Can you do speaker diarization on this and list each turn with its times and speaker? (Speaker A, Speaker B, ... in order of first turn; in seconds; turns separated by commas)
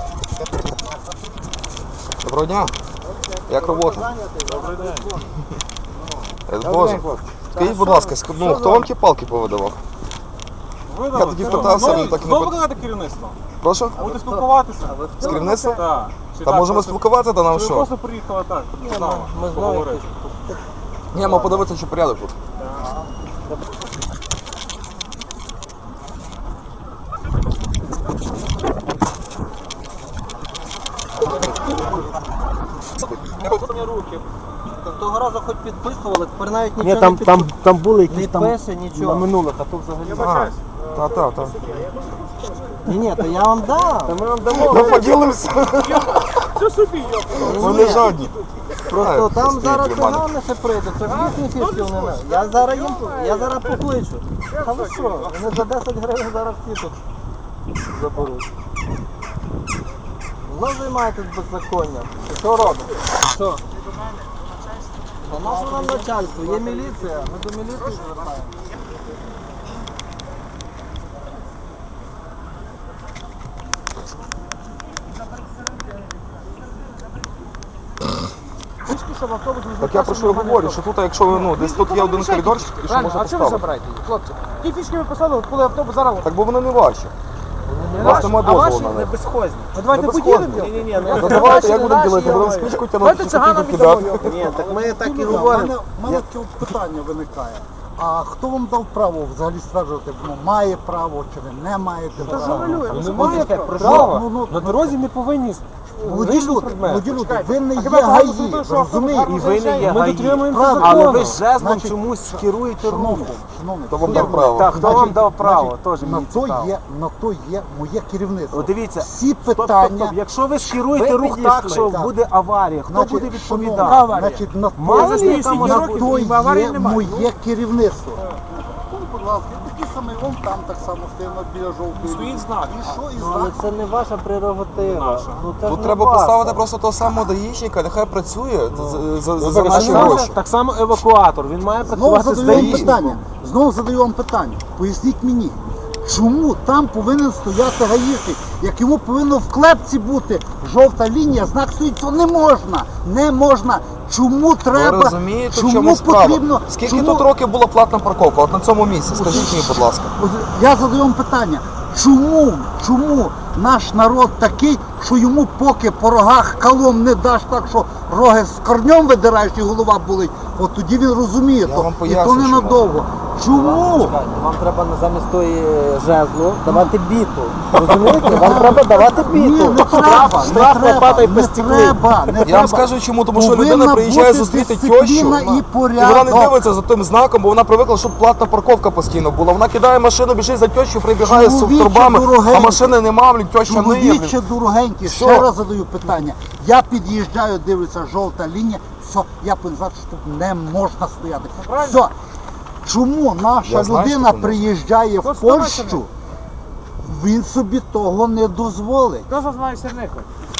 Speaker A: 2.2-2.7, Speaker B: 2.2-2.7, Speaker C: 3.0-5.3, Speaker B: 3.5-4.0, Speaker D: 4.5-5.2, Speaker B: 6.5-9.8, Speaker A: 6.6-9.5, Speaker D: 10.9-13.4, Speaker B: 11.1-12.7, Speaker C: 11.4-11.9, Speaker B: 13.6-13.9, Speaker C: 14.0-15.5, Speaker D: 14.0-20.1, Speaker A: 15.2-15.8, Speaker B: 15.2-15.8, Speaker B: 16.4-17.9, Speaker C: 18.8-20.6, Speaker B: 21.1-22.3, Speaker C: 21.2-21.6, Speaker A: 21.7-22.1, Speaker C: 34.8-37.5, Speaker E: 36.8-40.5, Speaker C: 38.1-39.3, Speaker D: 40.0-42.5, Speaker B: 40.2-41.7, Speaker A: 41.0-41.5, Speaker C: 42.9-44.2, Speaker E: 44.1-45.1, Speaker B: 44.5-46.4, Speaker D: 45.8-47.8, Speaker C: 47.4-48.1, Speaker B: 47.5-48.3, Speaker A: 47.6-48.1, Speaker C: 48.9-57.0, Speaker B: 49.0-50.3, Speaker C: 57.9-58.5, Speaker C: 60.4-63.6, Speaker C: 65.2-68.5, Speaker A: 78.9-86.4, Speaker B: 79.8-83.7, Speaker B: 86.2-87.1, Speaker C: 87.7-88.3, Speaker A: 88.0-88.9, Speaker B: 88.0-89.1, Speaker E: 88.0-92.9, Speaker A: 89.7-95.4, Speaker B: 90.6-94.6, Speaker E: 94.2-96.2, Speaker F: 94.7-105.0, Speaker A: 102.2-103.9, Speaker E: 102.7-104.2, Speaker B: 103.0-105.6, Speaker F: 106.0-109.4, Speaker B: 106.2-107.0, Speaker A: 107.1-110.0, Speaker E: 109.3-113.4, Speaker F: 110.5-120.2, Speaker B: 110.8-111.3, Speaker B: 113.9-115.0, Speaker E: 114.0-116.7, Speaker E: 118.5-124.0, Speaker F: 121.7-122.1, Speaker F: 122.8-133.7, Speaker A: 123.8-124.4, Speaker E: 124.8-126.2, Speaker A: 125.0-127.3, Speaker D: 132.0-132.9, Speaker C: 133.1-136.6, Speaker D: 134.7-135.6, Speaker B: 135.6-140.4, Speaker C: 138.7-139.0, Speaker E: 139.4-143.2, Speaker F: 141.8-157.3, Speaker B: 142.5-142.9, Speaker B: 154.7-160.1, Speaker F: 159.1-174.2, Speaker B: 171.6-172.8, Speaker C: 173.5-180.3, Speaker F: 176.6-176.9, Speaker F: 178.2-186.6, Speaker E: 178.4-182.6, Speaker B: 182.4-194.4, Speaker F: 191.2-193.0, Speaker F: 193.6-202.1, Speaker B: 195.0-195.5, Speaker A: 201.6-202.0, Speaker F: 202.8-206.1, Speaker B: 203.6-204.6, Speaker A: 205.2-206.0, Speaker F: 207.0-209.3, Speaker A: 209.3-210.3